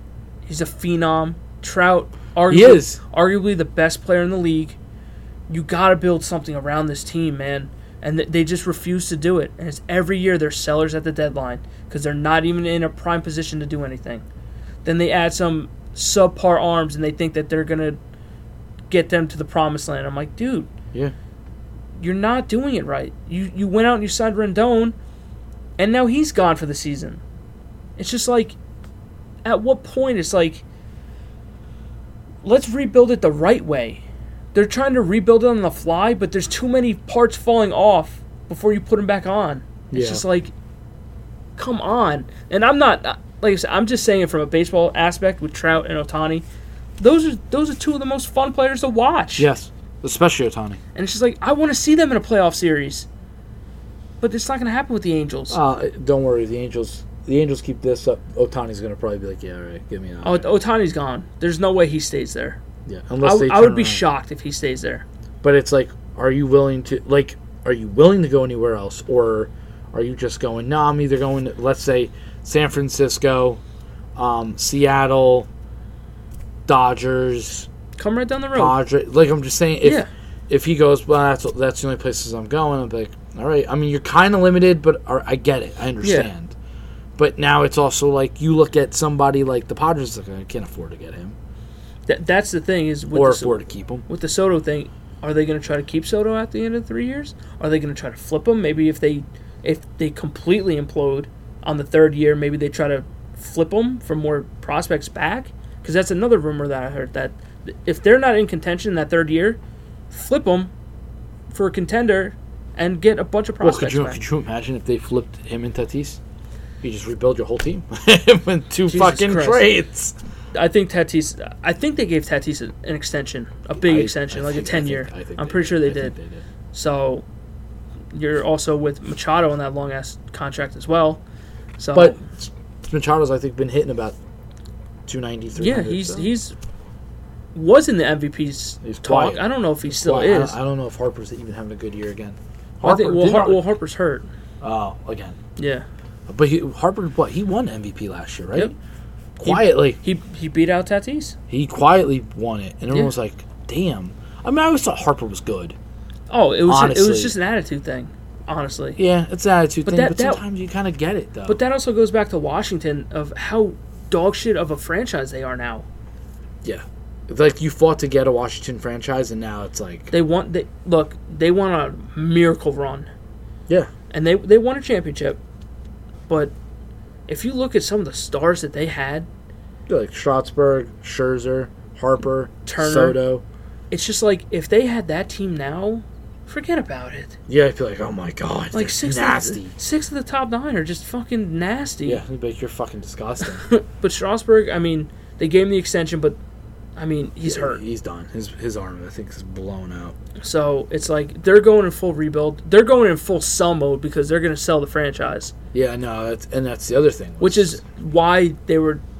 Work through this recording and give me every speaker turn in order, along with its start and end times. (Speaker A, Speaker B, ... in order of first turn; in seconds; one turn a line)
Speaker A: 0.5-4.8
Speaker B: 2.5-3.0
Speaker A: 5.5-14.2
Speaker A: 14.8-18.0
Speaker A: 18.9-20.7
Speaker A: 22.0-25.0
Speaker A: 25.8-27.2
Speaker A: 28.0-28.6
Speaker A: 29.4-30.6
Speaker A: 32.4-40.5
Speaker B: 39.9-40.2
Speaker A: 41.6-46.5
Speaker A: 47.0-49.5
Speaker B: 49.4-50.8
Speaker A: 51.0-53.1
Speaker A: 54.2-55.6
Speaker B: 55.5-60.6
Speaker A: 60.2-62.6
Speaker B: 62.9-64.0
Speaker A: 63.2-65.0
Speaker B: 65.4-73.6
Speaker B: 74.2-75.5
Speaker B: 76.7-77.7
Speaker A: 78.0-78.8
Speaker B: 78.5-86.5
Speaker A: 79.8-80.1
Speaker A: 86.0-86.3
Speaker B: 87.2-91.4
Speaker A: 92.1-110.7
Speaker B: 93.1-94.0
Speaker A: 111.5-114.2
Speaker B: 113.6-116.2
Speaker B: 116.8-120.2
Speaker A: 118.9-119.7
Speaker A: 120.5-126.1
Speaker B: 123.8-126.4
Speaker A: 126.7-127.2
Speaker A: 128.1-131.2
Speaker A: 131.8-132.2
Speaker B: 131.9-134.2
Speaker B: 135.1-136.3
Speaker A: 135.6-136.6
Speaker A: 137.5-140.6
Speaker B: 138.8-143.6
Speaker A: 142.8-144.3
Speaker B: 144.6-145.4
Speaker A: 145.6-145.8
Speaker B: 146.3-148.7
Speaker B: 149.4-150.0
Speaker A: 149.4-151.4
Speaker B: 151.5-155.8
Speaker A: 156.3-159.0
Speaker B: 156.7-157.3
Speaker B: 159.0-161.6
Speaker A: 159.9-160.4
Speaker A: 161.5-165.9
Speaker B: 166.6-170.1
Speaker A: 170.1-173.1
Speaker A: 174.1-175.4
Speaker A: 177.3-179.3
Speaker B: 179.9-183.4
Speaker A: 182.7-183.2
Speaker A: 183.9-187.4
Speaker B: 187.5-189.8
Speaker A: 188.7-192.2
Speaker B: 192.1-193.7
Speaker A: 193.6-196.4
Speaker A: 197.0-197.8
Speaker B: 197.4-200.2
Speaker A: 200.4-205.5
Speaker B: 205.7-207.8
Speaker A: 207.4-209.0